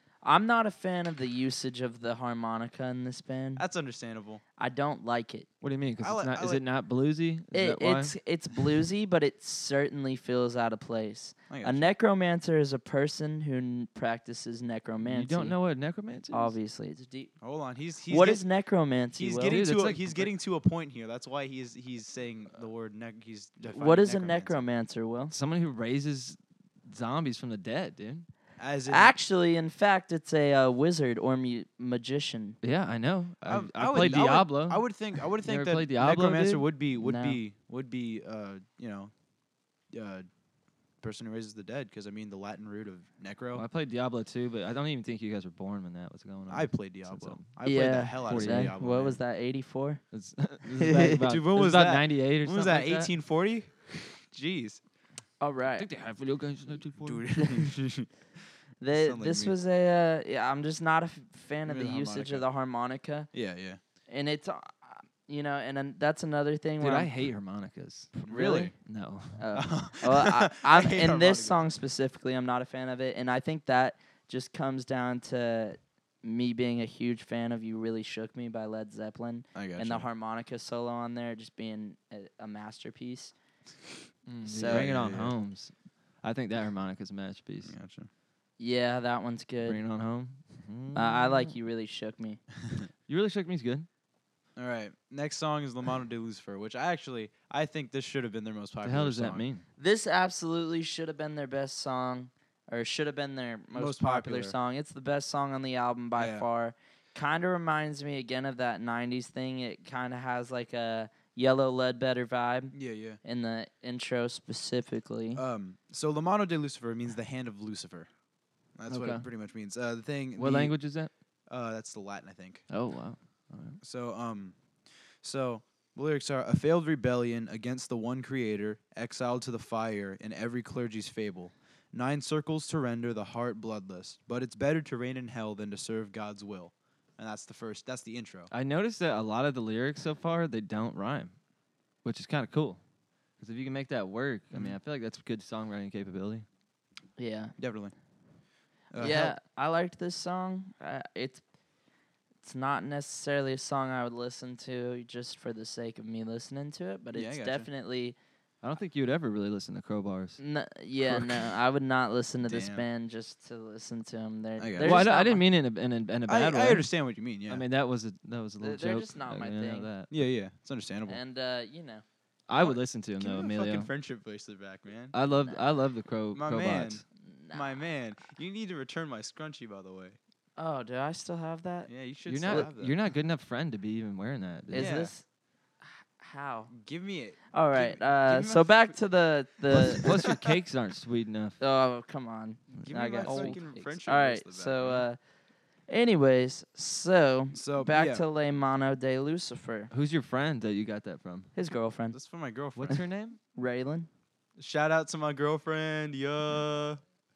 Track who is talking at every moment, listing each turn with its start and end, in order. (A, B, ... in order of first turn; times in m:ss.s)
0:00.2-0:03.6 A
0:03.6-0:04.4 B
0:04.6-0:05.5 A
0:05.6-0:08.1 C
0:06.0-0:06.6 B
0:07.5-0:15.6 A
0:11.5-0:11.9 B
0:15.0-0:16.5 C
0:16.3-0:17.3 A
0:17.4-0:18.4 B
0:18.1-0:19.6 A
0:19.2-0:24.6 B
0:19.5-0:20.3 C
0:23.7-0:25.3 A
0:25.3-0:28.3 C
0:28.6-0:29.1 B
0:28.9-0:32.6 A
0:32.6-0:34.8 C
0:33.4-0:39.1 B
0:35.4-0:36.6 C
0:37.0-0:37.4 A
0:39.9-0:40.3 B
0:41.0-0:43.6 B
0:43.5-0:47.5 C
0:46.5-0:49.2 B
0:47.6-0:50.0 A
0:48.2-0:48.7 C
0:50.1-0:53.1 C
0:50.7-0:51.2 A
0:51.2-0:54.8 B
0:55.4-0:55.9 A
0:55.8-0:57.3 C
0:57.0-0:58.1 B
0:57.4-0:57.6 A
0:58.8-1:03.3 A
0:58.9-0:59.5 B
1:01.6-1:02.5 B
1:03.3-1:03.8 B
1:04.1-1:07.1 A
1:06.8-1:08.2 C
1:08.2-1:08.7 B
1:08.3-1:08.7 A
1:08.8-1:09.4 C
1:09.4-1:23.3 A
1:09.5-1:11.6 B
1:19.5-1:20.1 B
1:24.3-1:27.7 C
1:24.4-1:24.9 A
1:24.6-1:25.4 B
1:27.6-1:28.1 B
1:28.6-1:29.8 A
1:29.6-1:31.5 C
1:30.9-1:32.4 A
1:33.1-1:33.9 C
1:34.6-1:39.4 B
1:38.8-1:39.6 C
1:39.8-1:55.4 A
1:43.7-1:44.5 B
1:46.2-1:46.5 B
1:52.7-1:53.2 B
1:55.4-1:58.1 B
1:58.8-2:00.7 B
1:58.9-1:59.2 C
2:00.4-2:01.1 C
2:01.5-2:02.6 B
2:02.7-2:03.8 C
2:03.8-2:04.5 B
2:05.2-2:18.5 B
2:18.5-2:21.3 C
2:22.0-2:22.8 C
2:23.4-2:26.4 C
2:24.5-2:24.8 B
2:27.2-2:27.5 A
2:27.6-2:27.9 B
2:28.9-2:29.3 B
2:29.0-2:31.4 A
2:32.4-2:38.2 A
2:37.1-2:37.7 B
2:38.6-2:40.4 C
2:40.4-2:45.4 A
2:41.0-2:41.5 B
2:42.4-2:42.8 B
2:44.6-2:45.0 B
2:44.8-2:46.8 C
2:46.3-2:47.6 B
2:47.5-2:50.1 C
2:48.6-2:49.9 A
2:50.1-2:51.2 B
2:51.1-2:52.0 A
2:52.5-2:53.9 C
2:52.5-2:55.1 B
2:55.1-2:57.0 C
2:55.3-2:55.6 A
2:56.3-2:57.0 B
2:57.2-2:57.8 A
2:57.5-3:00.2 B
3:00.6-3:01.9 A
3:01.9-3:03.0 B
3:02.3-3:05.0 C
3:04.7-3:05.2 A
3:04.7-3:05.1 B
3:06.2-3:06.7 A
3:06.7-3:09.0 B
3:07.5-3:10.1 A
3:09.6-3:10.6 B
3:09.7-3:11.6 C
3:11.6-3:15.2 A
3:12.8-3:15.0 B
3:13.2-3:13.6 C
3:15.9-3:19.9 A
3:17.5-3:18.2 B
3:19.9-3:21.5 C
3:21.5-3:22.2 A
3:22.1-3:23.0 B
3:22.8-3:23.4 C
3:23.5-3:24.1 A
3:24.6-3:27.0 B